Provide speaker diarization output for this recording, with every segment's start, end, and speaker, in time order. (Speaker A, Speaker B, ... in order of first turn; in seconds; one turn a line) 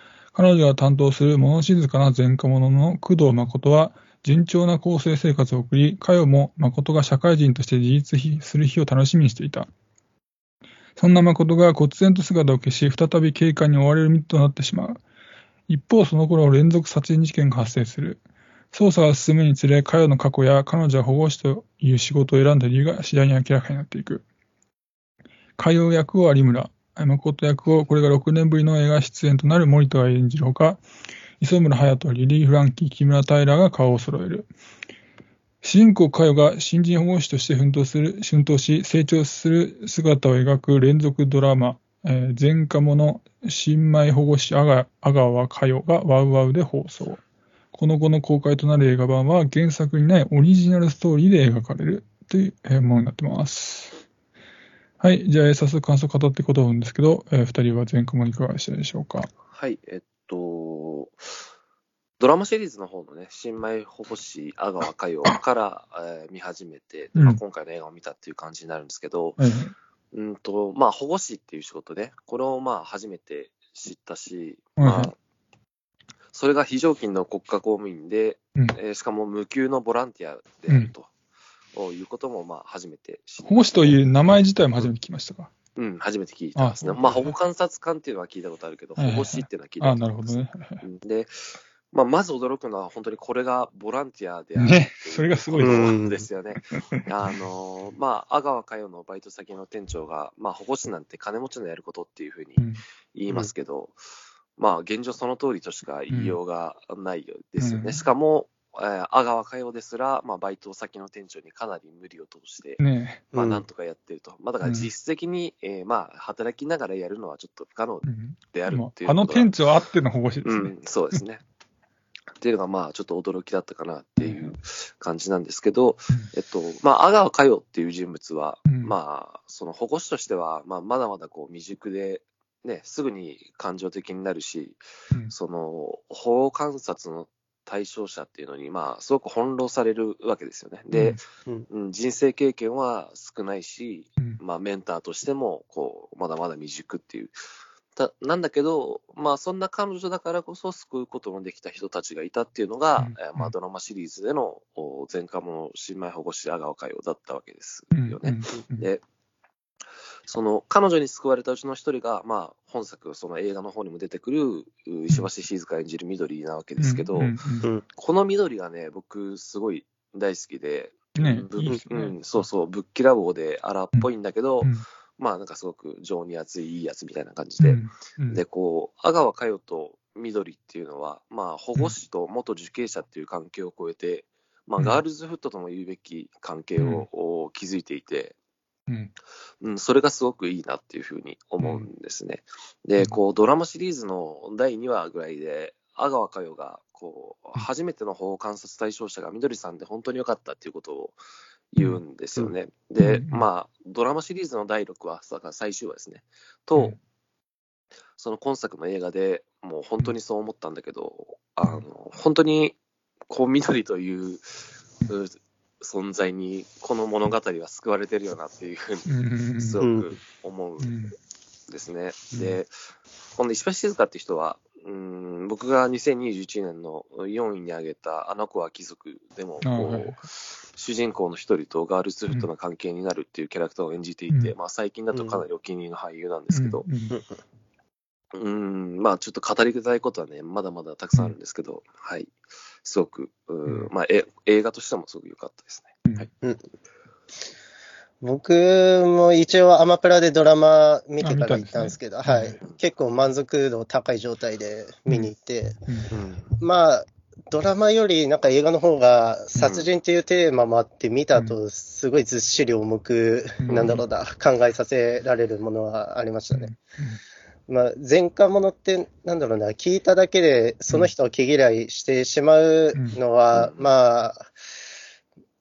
Speaker A: 0.3-9.7
Speaker A: 11.0-15.0
Speaker A: 15.7-18.2
Speaker A: 18.7-24.2
Speaker A: 25.6-30.8
Speaker A: 31.4-34.5
Speaker A: 35.6-47.2
Speaker A: 47.7-53.9
Speaker A: 55.0-59.3
Speaker B: 59.5-61.3
Speaker B: 62.2-69.4
Speaker A: 69.4-69.7
Speaker B: 70.1-75.2
Speaker A: 74.8-75.1
Speaker B: 76.3-81.1
Speaker B: 81.7-84.0
Speaker A: 83.5-85.5
Speaker B: 85.8-104.0
Speaker A: 86.5-87.3
Speaker A: 89.0-90.8
Speaker A: 94.5-96.0
Speaker C: 95.6-96.2
Speaker A: 96.7-97.0
Speaker B: 104.6-112.8
Speaker A: 106.1-106.4
Speaker A: 107.6-108.0
Speaker A: 112.8-113.2
Speaker C: 113.3-113.6
Speaker B: 113.3-119.5
Speaker A: 114.6-114.9
Speaker A: 118.0-121.2
Speaker B: 120.4-121.4
Speaker B: 122.4-147.3
Speaker A: 124.2-124.5
Speaker A: 128.7-128.9
Speaker A: 140.9-141.2
Speaker B: 147.9-159.0
Speaker A: 153.0-153.5
Speaker A: 157.9-158.9
Speaker B: 160.3-167.3
Speaker A: 166.8-167.7
Speaker B: 167.9-188.3
Speaker A: 171.2-172.2
Speaker A: 177.6-178.4
Speaker A: 186.8-187.1
Speaker B: 189.6-201.2
Speaker A: 191.6-191.9
Speaker B: 201.7-207.0
Speaker A: 203.0-203.4
Speaker B: 208.2-212.8
Speaker B: 213.3-220.9
Speaker A: 219.1-219.8
Speaker C: 219.8-220.1
Speaker A: 220.8-221.1
Speaker B: 221.7-222.7
Speaker A: 222.3-222.6
Speaker B: 223.3-236.8
Speaker A: 229.6-230.2
Speaker A: 234.3-234.5
Speaker C: 235.1-235.4
Speaker A: 236.5-237.2
Speaker C: 237.1-237.3
Speaker B: 238.3-246.3
Speaker C: 248.2-255.8
Speaker A: 251.2-252.6
Speaker B: 256.1-256.5
Speaker C: 256.6-266.7
Speaker B: 259.6-259.9
Speaker A: 263.6-264.0
Speaker A: 266.5-267.2
Speaker C: 267.7-274.5
Speaker B: 273.5-273.8